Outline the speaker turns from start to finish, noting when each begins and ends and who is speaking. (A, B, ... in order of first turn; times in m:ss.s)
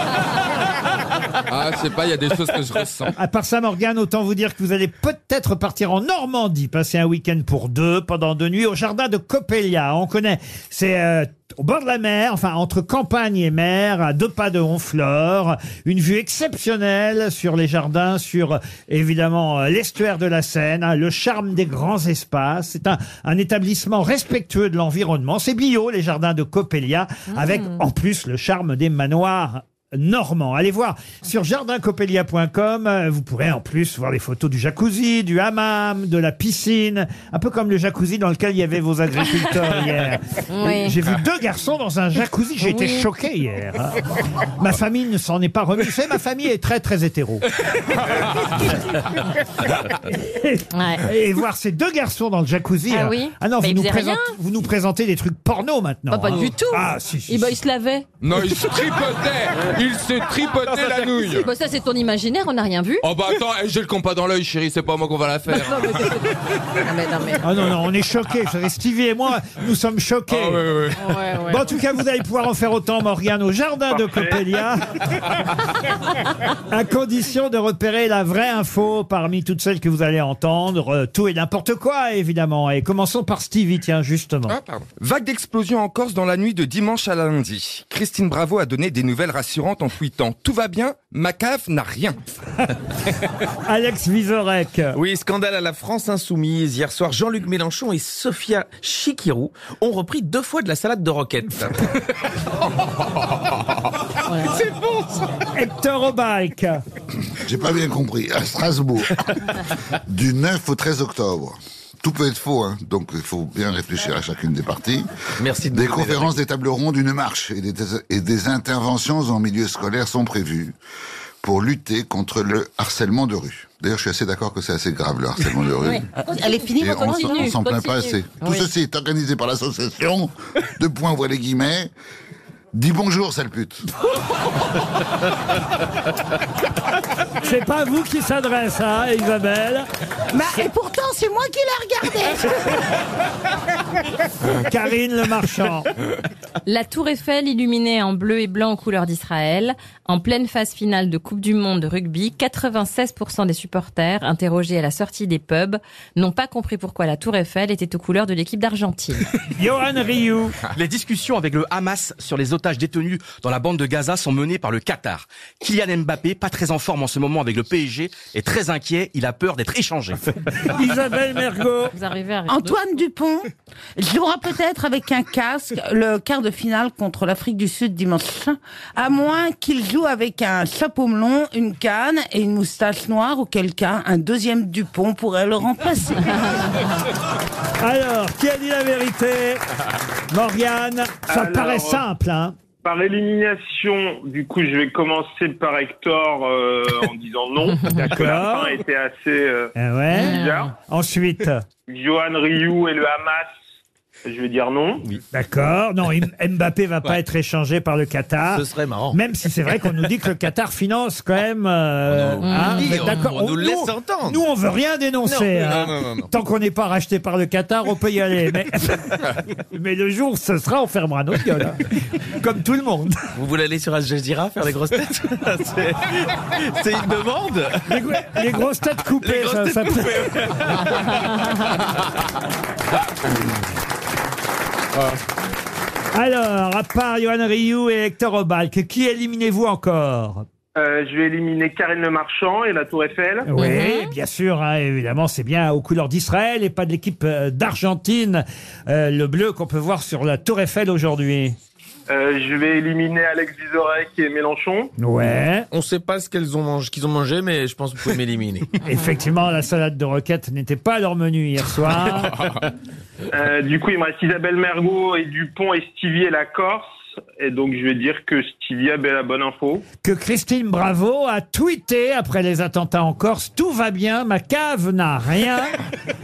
0:01.5-0:03.1 A
0:03.2-0:47.5 B
0:27.3-0:27.8 C
0:40.5-0:41.0 C
0:42.6-0:43.1 C
0:50.1-0:57.6 B
0:50.7-0:51.0 C
0:52.9-0:54.4 C
0:56.1-0:58.1 C
0:58.2-1:01.5 A
1:01.2-1:03.0 C
1:03.0-1:06.1 A
1:05.5-1:07.4 C
1:07.4-1:10.7 B
1:10.3-1:11.2 A
1:11.0-1:11.7 C
1:11.5-1:14.9 B
1:13.9-1:14.4 D
1:16.7-1:24.6 B
1:24.5-1:32.2 A
1:33.6-1:35.0 B
1:34.9-1:41.9 E
1:44.3-1:44.6 C
1:45.5-1:46.8 B
1:47.3-1:49.2 F
1:50.0-2:00.8 F
1:55.4-1:56.3 E
2:01.4-2:06.0 F
2:05.8-2:08.7 C
2:06.2-2:07.6 G
2:06.8-2:11.9 F
2:12.7-2:13.8 F
2:17.4-2:19.9 B
2:20.3-2:22.8 G
2:24.6-2:25.9 B
2:26.7-2:39.3 C
2:39.6-2:40.6 B
2:40.7-2:50.2 H
2:50.6-2:51.9 B
2:51.9-2:52.8 C
2:52.5-3:06.4 G
3:07.8-3:09.6 B
3:10.3-3:12.6 B
3:11.3-3:12.0 D
3:12.8-3:20.7 D
3:17.7-3:18.0 C
3:17.9-3:18.8 B
3:19.8-3:21.6 B
3:20.1-3:20.7 C
3:21.9-3:23.5 D
3:24.2-3:25.1 D
3:25.3-3:41.8 B
3:28.5-3:29.2 E
3:32.1-3:34.4 E
3:32.4-3:33.3 C
3:35.2-3:36.3 E
3:42.4-3:43.2 B
3:43.4-3:47.9 E
3:47.9-3:50.4 B
3:49.2-3:50.8 E
3:56.1-4:00.5 B
4:00.8-4:03.5 D
4:03.5-4:11.6 B
4:03.6-4:04.1 C
4:12.1-4:14.9 D
4:15.0-4:15.7 B
4:15.7-4:18.7 E
4:18.8-4:22.4 B
4:23.3-4:29.8 D
4:30.0-4:35.8 B